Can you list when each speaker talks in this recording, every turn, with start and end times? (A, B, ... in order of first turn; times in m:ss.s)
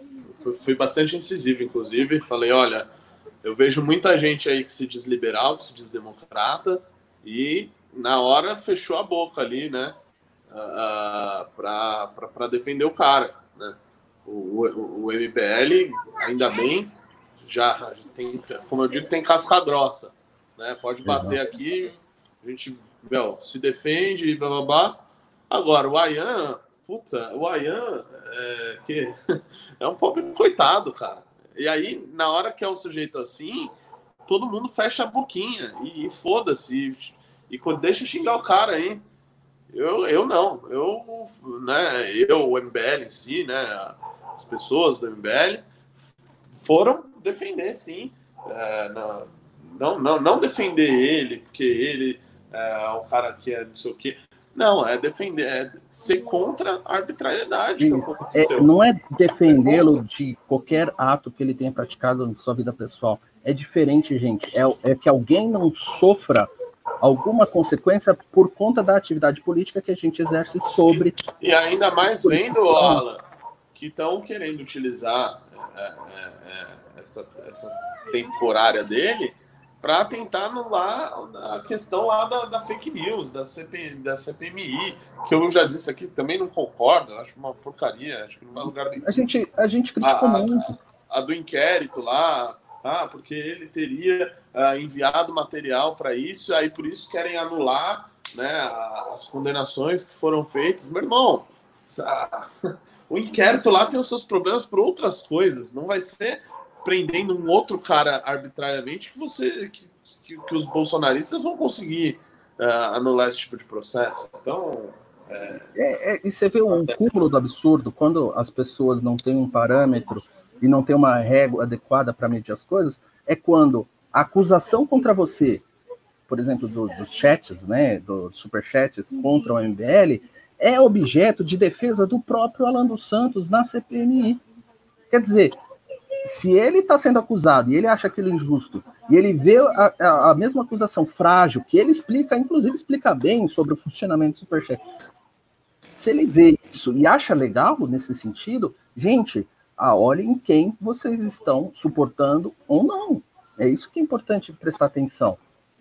0:00.2-0:02.9 A
0:03.4-0:10.0 A
0:10.5-0:25.0 A
0:21.0-0:21.4 B
0:25.5-0:33.7 A
0:34.3-0:39.0 A
0:39.7-0:45.7 A
0:46.6-0:58.7 A
0:57.8-1:06.5 B
0:59.3-0:59.9 A
1:07.0-1:11.3 B
1:11.4-1:29.2 A
1:12.0-1:13.0 B
1:28.7-1:30.8 B
1:30.0-1:55.7 A
1:55.8-2:05.6 B
1:56.7-1:57.1 A
2:06.3-2:14.4 B
2:15.1-2:15.6 B
2:16.2-2:24.8 B
2:26.0-2:35.4 B